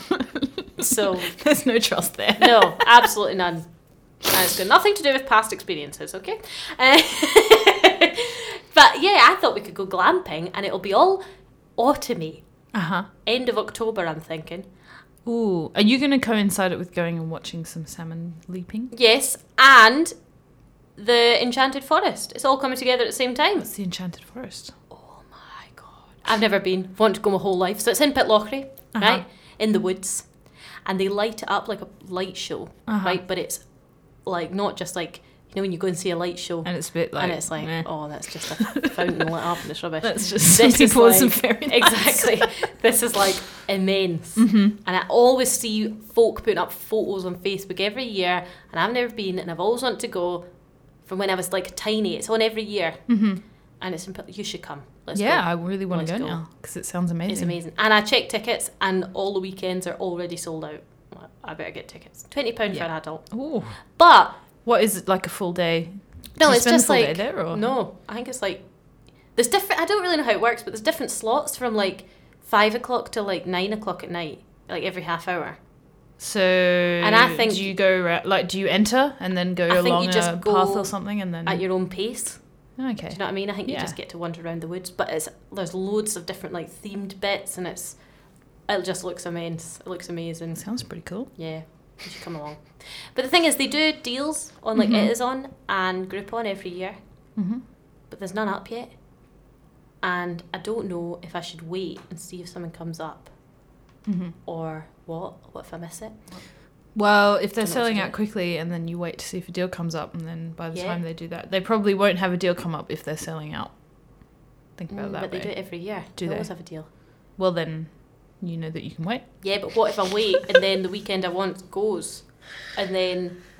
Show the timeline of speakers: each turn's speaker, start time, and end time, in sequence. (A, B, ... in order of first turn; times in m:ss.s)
0:00.8-0:02.9 A
0:00.8-0:01.4 B
0:02.4-0:11.2 B
0:11.8-0:12.4 B
0:12.7-0:13.1 A
0:13.2-0:14.7 B
0:15.2-0:18.9 A
0:18.9-0:20.1 B
0:20.9-0:23.7 B
0:23.6-0:24.8 A
0:24.9-0:53.2 B
0:28.9-0:29.2 A
0:32.9-0:33.2 A
0:36.6-0:38.8 A
0:40.0-0:42.4 A
0:44.4-0:44.8 A
0:53.1-0:53.4 A
0:53.8-0:56.4 B
0:55.1-0:57.6 A
0:57.2-1:04.4 B
1:02.7-1:07.6 A
1:06.3-1:15.6 B
1:16.2-1:22.1 A
1:17.0-1:17.7 B
1:19.7-1:37.3 B
1:22.8-1:24.0 A
1:30.6-1:31.3 A
1:34.8-1:35.1 A
1:37.4-1:37.6 A
1:38.1-1:39.5 B
1:40.0-1:43.7 B
1:44.0-1:44.4 A
1:44.4-1:46.5 B
1:46.9-2:00.0 A
1:47.6-1:48.2 B
1:50.7-1:51.0 B
1:54.9-1:56.9 B
1:59.4-2:03.4 B